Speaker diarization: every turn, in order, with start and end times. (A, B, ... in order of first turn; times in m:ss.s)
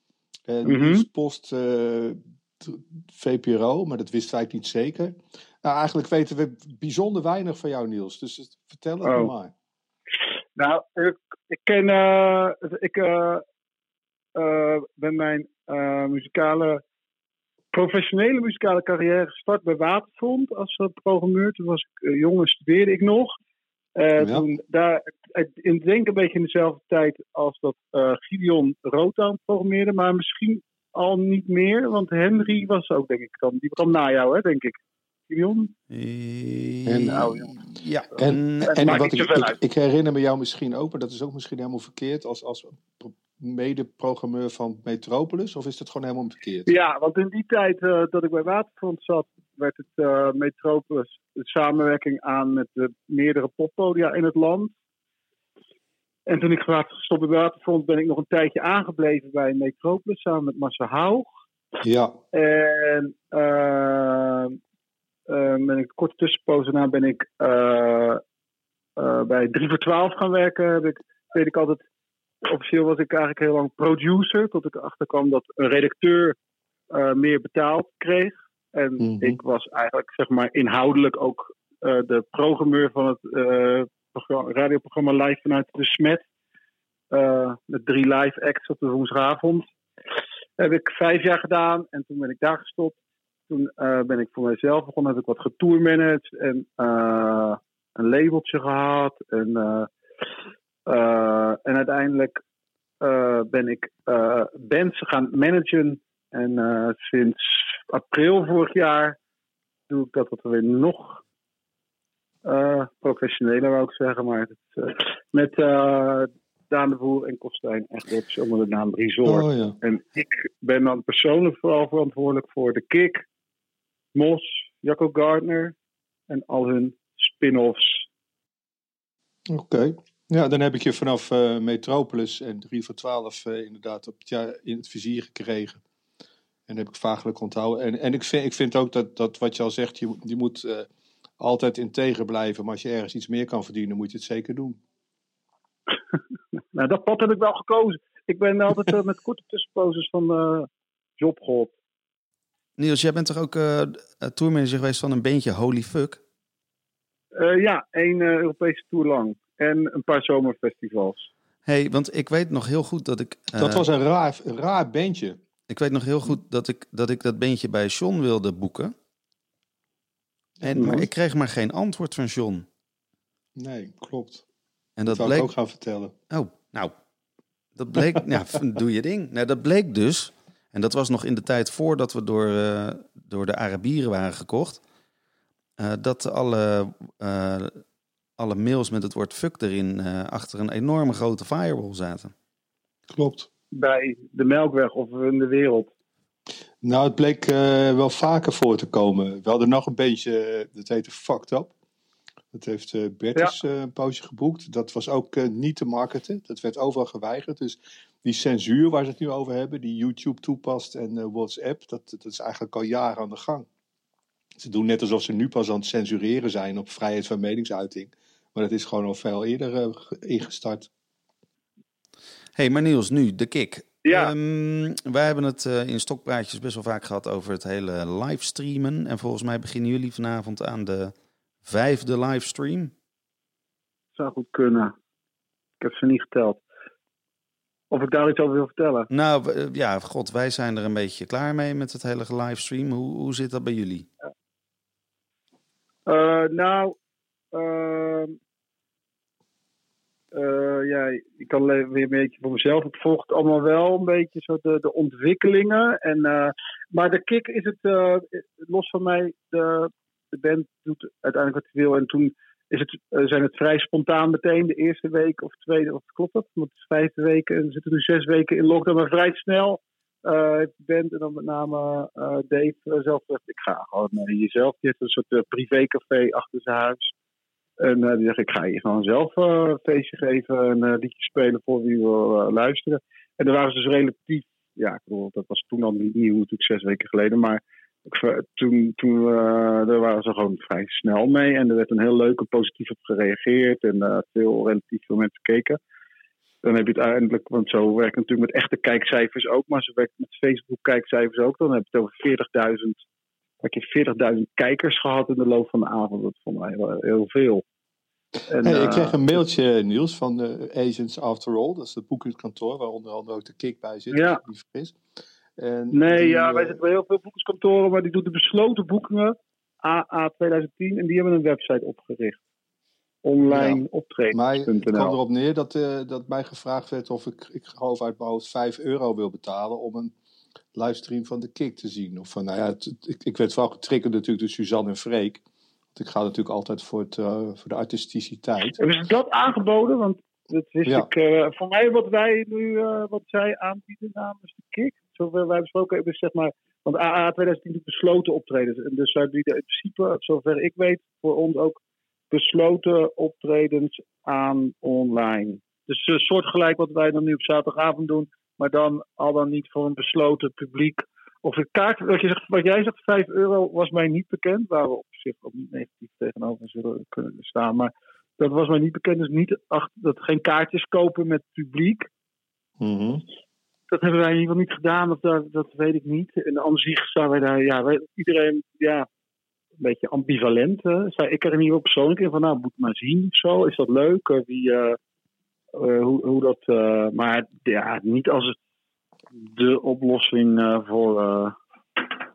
0:00.5-0:09.5 A
0:00.6-0:01.0 B
0:09.0-0:09.3 B
0:10.6-0:13.4 B
0:14.4-0:16.8 B
0:17.7-0:23.3 B
0:24.0-0:34.8 B
0:24.2-0:24.4 A
0:35.3-0:35.7 B
0:35.9-0:38.8 C
0:36.8-0:37.3 A
0:37.1-0:37.6 B
0:38.2-0:46.7 A
0:38.6-0:39.6 B
0:46.7-0:54.7 B
0:56.3-1:01.3 B
1:01.8-1:02.2 A
1:02.3-1:04.6 B
1:05.3-1:08.2 B
1:09.0-1:11.8 B
1:12.4-1:16.4 B
1:16.9-1:26.2 B
1:19.0-1:19.4 A
1:27.1-1:29.7 B
1:30.6-1:33.0 B
1:33.5-1:39.9 B
1:40.9-1:42.4 B
1:43.0-1:49.2 B
1:49.9-1:51.2 B
1:52.4-2:03.2 B
1:59.2-1:59.8 A
2:04.1-2:05.8 B
2:06.3-2:08.0 B
2:09.5-2:15.8 A
2:16.7-2:20.9 A
2:21.4-2:24.8 A
2:26.7-2:31.7 B
2:32.8-2:36.2 C
2:37.4-2:41.3 B
2:41.6-2:43.9 C
2:43.6-2:45.4 A
2:45.7-2:48.9 C
2:50.6-2:51.1 A
2:50.6-2:52.7 C
2:53.6-2:54.4 A
2:55.0-2:55.5 C
2:55.1-2:56.1 A
2:56.3-2:56.9 C
2:57.8-3:04.8 C
3:05.8-3:07.8 C
3:08.4-3:12.3 C
3:13.1-3:13.5 A
3:13.7-3:15.9 B
3:16.8-3:21.7 A
3:22.5-3:33.7 A
3:34.6-3:40.9 A
3:42.6-3:51.1 C
3:44.1-3:44.3 B
3:51.6-3:52.9 C
3:54.2-3:54.9 B
3:55.8-3:56.6 B
3:57.9-3:59.1 B
3:59.1-4:04.1 C
4:06.1-4:07.0 B
4:07.5-4:08.4 B
4:10.3-4:37.1 B
4:37.8-4:55.8 B
4:56.6-5:03.0 B
5:03.6-5:07.6 B
5:08.5-5:09.3 B
5:08.6-5:15.0 A
5:14.1-5:14.4 B
5:15.6-5:16.8 A
5:15.9-5:22.4 B
5:23.2-5:25.2 B
5:23.5-5:23.8 A
5:24.3-5:30.1 A
5:30.8-5:35.4 A
5:36.0-5:38.8 A
5:38.8-5:51.8 B
5:52.3-6:12.1 B
6:12.8-6:13.2 A
6:13.9-6:19.1 B
6:19.8-6:25.0 B
6:25.7-6:28.6 B
6:29.3-6:32.2 B